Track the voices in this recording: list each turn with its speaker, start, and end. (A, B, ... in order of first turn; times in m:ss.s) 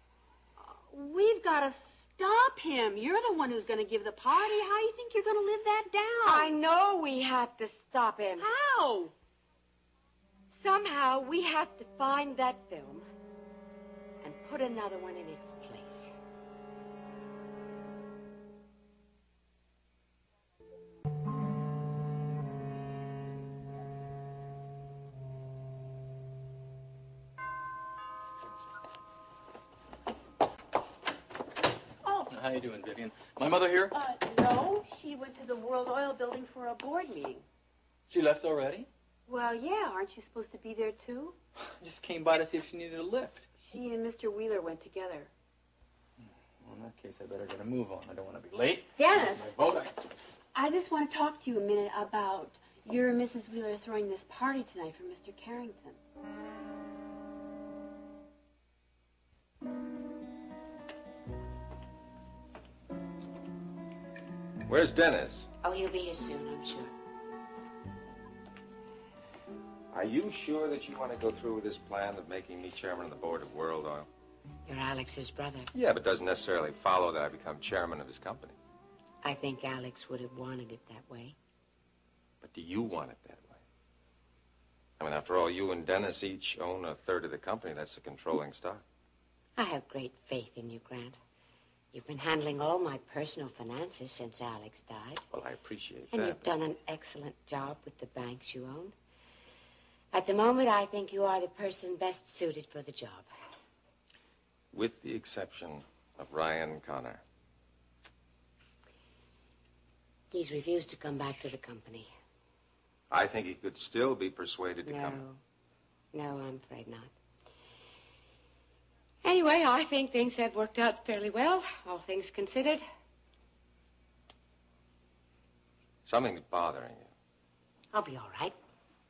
0:00.6-0:06.6 A
0:06.2-0:08.5 B
0:08.4-0:09.1 A
0:10.6-0:13.1 B
0:14.2-0:16.1 B
0:32.0-0:32.3 A
0:32.3-0:33.9 C
0:33.9-0:37.4 A
0:38.1-0:38.9 C
0:39.3-0:41.4 A
0:41.6-0:43.5 C
0:43.6-0:45.3 A
0:46.2-0:49.9 C
0:49.0-0:49.6 A
0:50.5-0:56.0 A
1:04.7-1:05.5 D
1:05.6-1:06.9 B
1:09.9-1:14.1 D
1:14.7-1:15.7 B
1:15.7-1:18.6 D
1:19.2-1:21.4 B
1:22.4-1:23.6 D
1:25.0-1:28.8 D
1:29.6-1:31.2 B
1:31.9-1:35.2 B
1:35.3-1:36.4 D
1:36.1-1:39.0 B
1:40.1-1:43.3 B
1:44.7-1:47.2 D
1:50.3-1:52.1 B
1:53.1-1:55.2 D
1:54.8-1:55.4 B
1:56.1-1:57.1 B
1:59.2-2:02.8 B
2:06.0-2:07.1 D
2:07.9-2:08.5 B